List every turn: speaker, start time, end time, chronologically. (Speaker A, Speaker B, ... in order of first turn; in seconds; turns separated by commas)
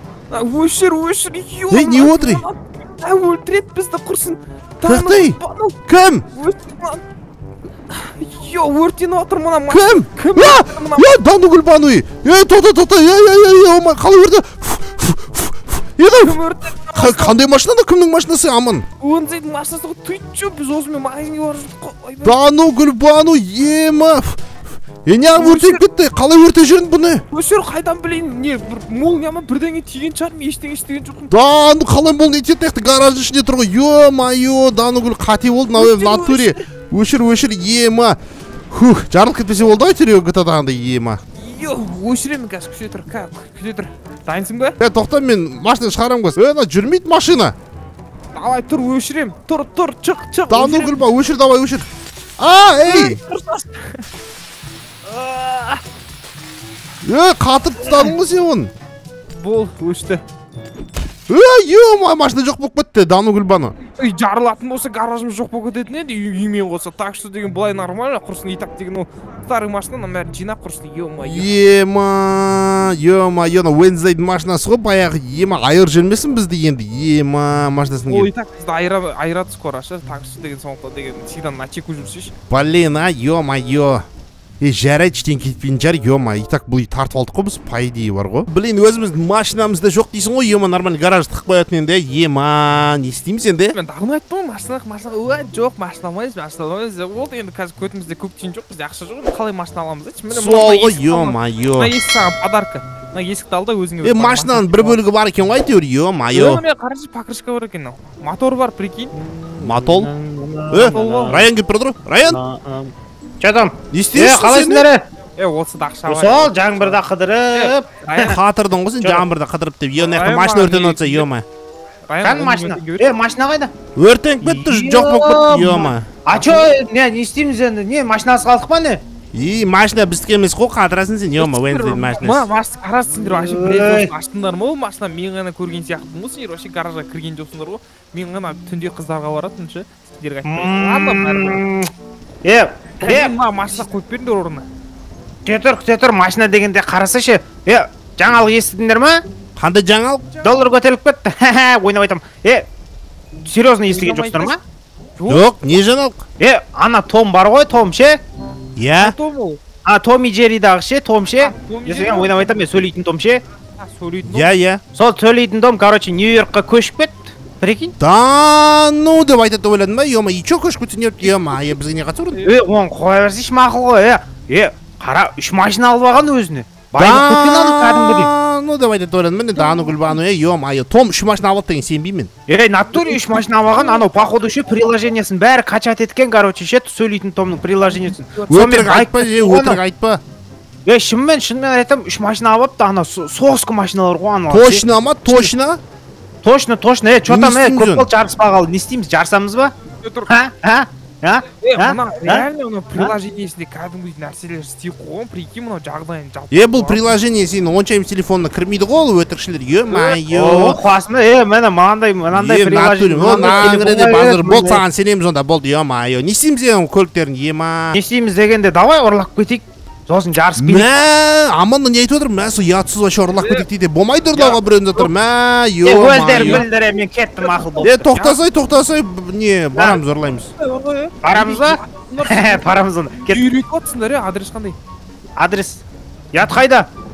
Speaker A: 0.3-5.8, Speaker B: 1.7-2.4, Speaker B: 4.8-6.2, Speaker A: 6.3-7.0, Speaker A: 7.9-11.1, Speaker B: 9.7-16.4, Speaker A: 16.1-17.4, Speaker B: 16.9-18.9, Speaker A: 19.0-22.4, Speaker B: 22.2-24.4, Speaker B: 25.0-27.2, Speaker A: 25.3-25.8, Speaker A: 27.3-31.3, Speaker B: 31.3-38.2, Speaker A: 35.7-36.6, Speaker B: 38.7-41.2, Speaker A: 41.4-44.8, Speaker B: 44.8-47.5, Speaker A: 48.3-51.0, Speaker B: 50.5-51.9, Speaker B: 52.4-53.2, Speaker A: 52.8-54.0, Speaker A: 55.0-55.8, Speaker B: 57.0-58.7, Speaker A: 57.8-58.1, Speaker A: 59.4-60.2, Speaker B: 61.3-63.7, Speaker A: 64.0-71.5, Speaker B: 71.2-78.3, Speaker A: 78.0-82.3, Speaker B: 82.5-84.0, Speaker B: 84.6-93.8, Speaker A: 93.7-105.0, Speaker B: 100.3-101.9, Speaker B: 104.0-106.6, Speaker A: 106.3-109.1, Speaker C: 109.2-111.5, Speaker B: 109.6-110.1, Speaker B: 110.7-112.4, Speaker A: 110.9-111.4, Speaker C: 112.3-115.0, Speaker B: 113.9-114.9, Speaker A: 115.4-117.0, Speaker C: 116.0-118.4, Speaker A: 117.5-118.3, Speaker B: 118.2-121.4, Speaker A: 120.0-121.3, Speaker A: 122.1-123.1, Speaker C: 122.2-123.7, Speaker B: 124.0-126.1, Speaker C: 124.4-129.0, Speaker A: 126.3-126.7, Speaker B: 129.3-132.5, Speaker A: 131.4-141.6, Speaker C: 133.2-134.1, Speaker C: 140.4-141.9, Speaker C: 142.4-143.3, Speaker A: 143.0-144.7, Speaker C: 145.4-149.2, Speaker B: 149.6-150.3, Speaker C: 150.4-152.7, Speaker C: 153.4-154.6, Speaker A: 153.9-154.6, Speaker A: 155.2-155.4, Speaker B: 155.3-156.2, Speaker C: 156.4-158.2, Speaker B: 158.8-159.2, Speaker A: 159.0-159.6, Speaker C: 159.8-163.4, Speaker A: 161.4-162.7, Speaker A: 163.8-164.5, Speaker B: 164.2-164.8, Speaker C: 164.9-167.9, Speaker B: 168.0-172.4, Speaker C: 172.4-178.3, Speaker B: 177.0-182.3, Speaker A: 179.6-180.2, Speaker C: 182.5-189.8, Speaker A: 182.9-184.3, Speaker A: 187.8-188.8, Speaker B: 188.5-190.2, Speaker C: 190.8-195.5, Speaker B: 194.5-195.8, Speaker C: 196.4-199.7, Speaker B: 197.2-198.1, Speaker A: 200.0-200.3, Speaker C: 200.3-203.2, Speaker A: 201.6-207.2, Speaker B: 206.5-210.8, Speaker C: 209.9-214.8, Speaker B: 212.3-218.0, Speaker A: 213.2-213.9, Speaker C: 217.9-220.9, Speaker B: 220.6-226.6, Speaker A: 223.3-223.7, Speaker A: 224.4-225.1, Speaker C: 225.8-228.1, Speaker A: 226.0-226.7, Speaker A: 227.7-228.4, Speaker B: 227.8-230.5, Speaker C: 229.7-230.0, Speaker A: 230.6-234.8, Speaker C: 231.2-233.4, Speaker C: 235.4-236.9